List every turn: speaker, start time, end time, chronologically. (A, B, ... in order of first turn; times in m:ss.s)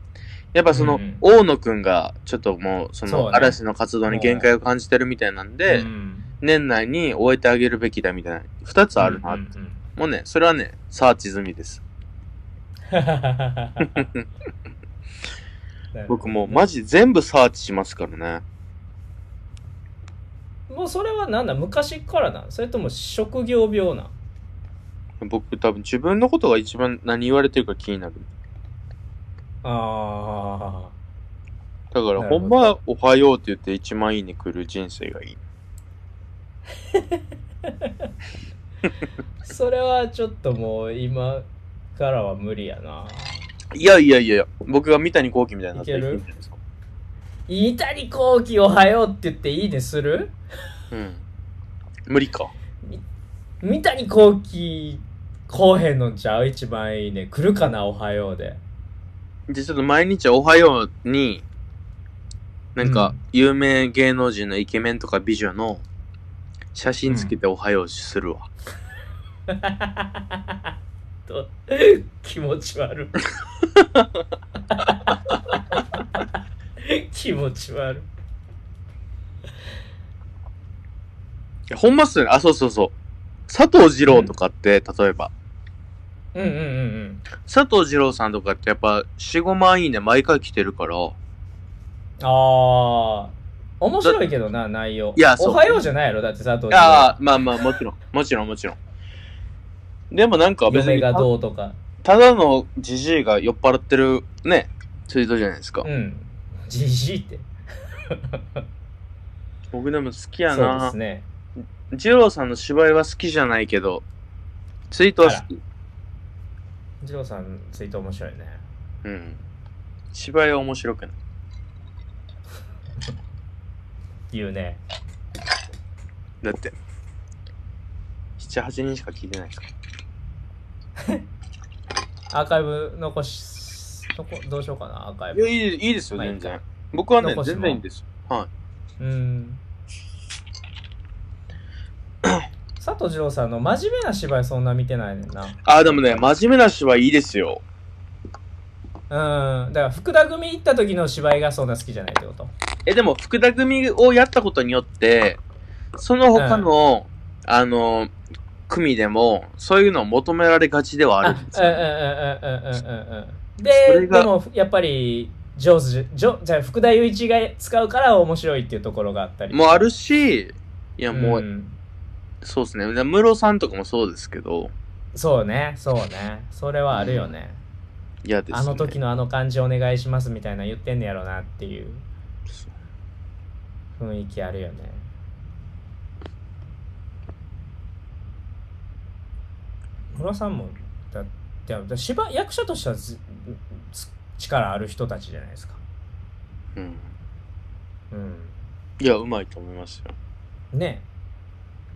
0:00.5-0:05.9 A
0:00.7-0:01.2 B
0:03.0-0:04.5 B
0:05.7-0:06.3 B
0:06.4-0:09.4 A
0:09.0-0:09.8 B
0:10.0-0:11.8 A
0:12.9-0:14.1 B
0:13.8-0:14.2 A
0:15.9-0:16.6 B
0:16.1-0:18.4 A
0:20.7-0:24.1 B
0:25.2-0:28.3 A
0:29.6-0:30.9 B
0:31.9-0:35.4 A
0:32.2-0:32.7 B
0:36.9-0:38.1 B
0:39.4-0:43.5 B
0:43.7-0:46.6 A
0:45.7-0:46.2 B
0:47.5-0:50.3 B
0:50.9-0:51.2 A
0:52.1-0:52.5 A
0:53.6-0:58.6 B
0:59.5-1:01.4 A
1:02.8-1:05.8 A
1:02.8-1:03.2 B
1:06.7-1:08.5 A
1:07.1-1:07.3 B
1:09.5-1:10.6 B
1:11.3-1:13.2 B
1:13.8-1:14.0 A
1:14.7-1:15.2 B
1:15.7-1:16.2 B
1:16.8-1:18.1 B
1:21.7-1:22.9 A
1:23.5-1:25.3 A
1:24.1-1:24.3 B
1:26.3-1:27.3 B
1:27.4-1:31.2 A
1:32.2-1:37.2 B
1:35.1-1:35.8 A
1:36.7-1:38.8 A
1:40.1-1:41.3 A
1:40.7-1:41.8 B
1:42.0-1:45.9 A
1:45.8-1:47.5 B
1:48.1-1:48.4 B
1:49.7-1:50.9 A
1:50.5-1:51.3 B
1:51.9-1:54.0 A
1:54.9-1:55.4 A
1:57.0-1:58.6 B
1:59.0-1:59.4 A
2:00.1-2:01.2 A
2:04.3-2:04.8 B
2:06.4-2:06.8 A
2:08.4-2:09.7 A
2:12.3-2:15.5 B
2:15.3-2:18.5 A
2:16.2-2:16.6 B
2:17.2-2:17.8 B
2:19.0-2:19.6 B
2:22.8-2:26.3 B
2:25.6-2:27.6 A
2:29.1-2:32.5 B
2:32.8-2:35.4 A
2:36.0-2:38.1 A
2:36.3-2:36.7 B
2:38.7-2:41.8 A
2:41.2-2:49.9 B
2:43.8-2:44.3 A
2:49.5-2:51.4 A
2:51.1-2:51.8 B
2:52.4-2:54.7 A
2:55.1-2:57.6 B
2:56.9-2:57.3 A
2:58.2-2:59.0 A
2:58.5-3:02.0 B
3:04.0-3:05.1 B
3:10.1-3:15.8 B
3:16.8-3:17.1 A
3:18.1-3:18.5 B
3:19.0-3:20.2 A
3:20.7-3:21.1 B